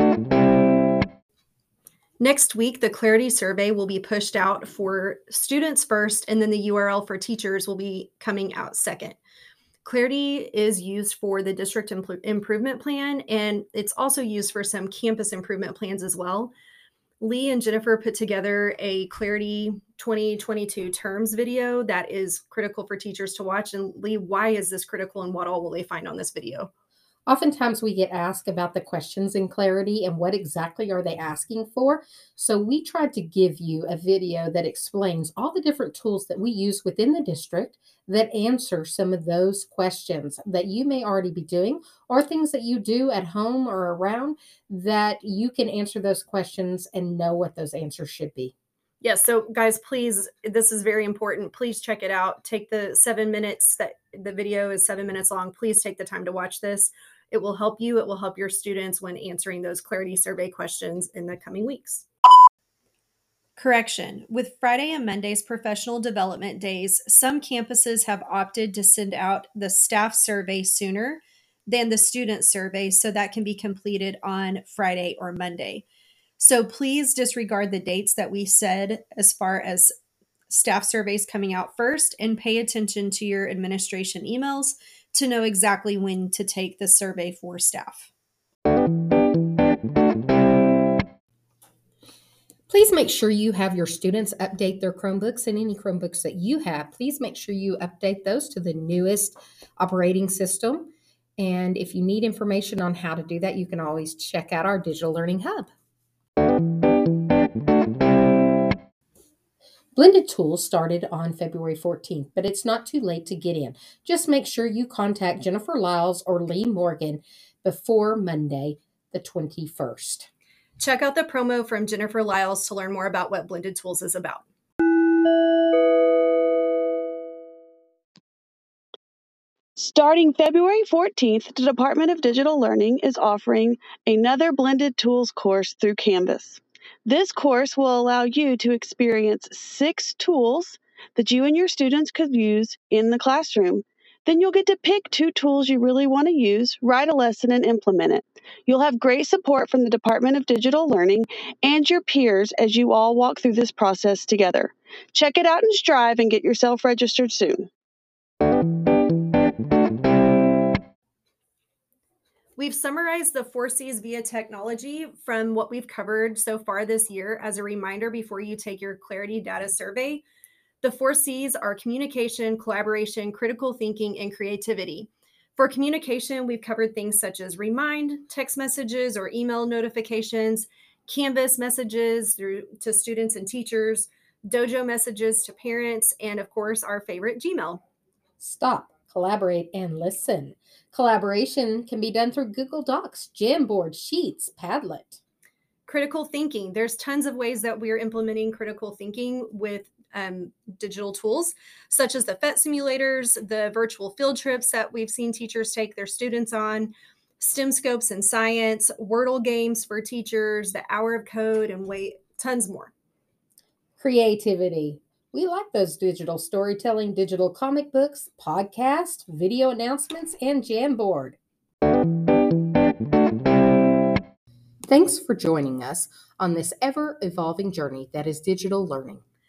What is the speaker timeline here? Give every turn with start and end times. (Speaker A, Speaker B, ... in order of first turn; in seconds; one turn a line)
Speaker A: 2.2-9.2
Speaker A: 9.8-16.5
Speaker A: 17.2-26.7
Speaker B: 27.3-48.5
Speaker A: 49.0-62.1
Speaker A: 63.6-75.8
Speaker A: 76.4-79.9
Speaker A: 80.5-88.1
Speaker B: 92.7-105.7
Speaker B: 110.0-120.3
Speaker A: 120.8-124.5
Speaker C: 129.8-157.7
Speaker A: 162.6-170.2
Speaker A: 170.8-187.8
Speaker B: 188.4-195.2
Speaker A: 195.9-212.9
Speaker B: 214.0-221.4
Speaker B: 224.9-229.2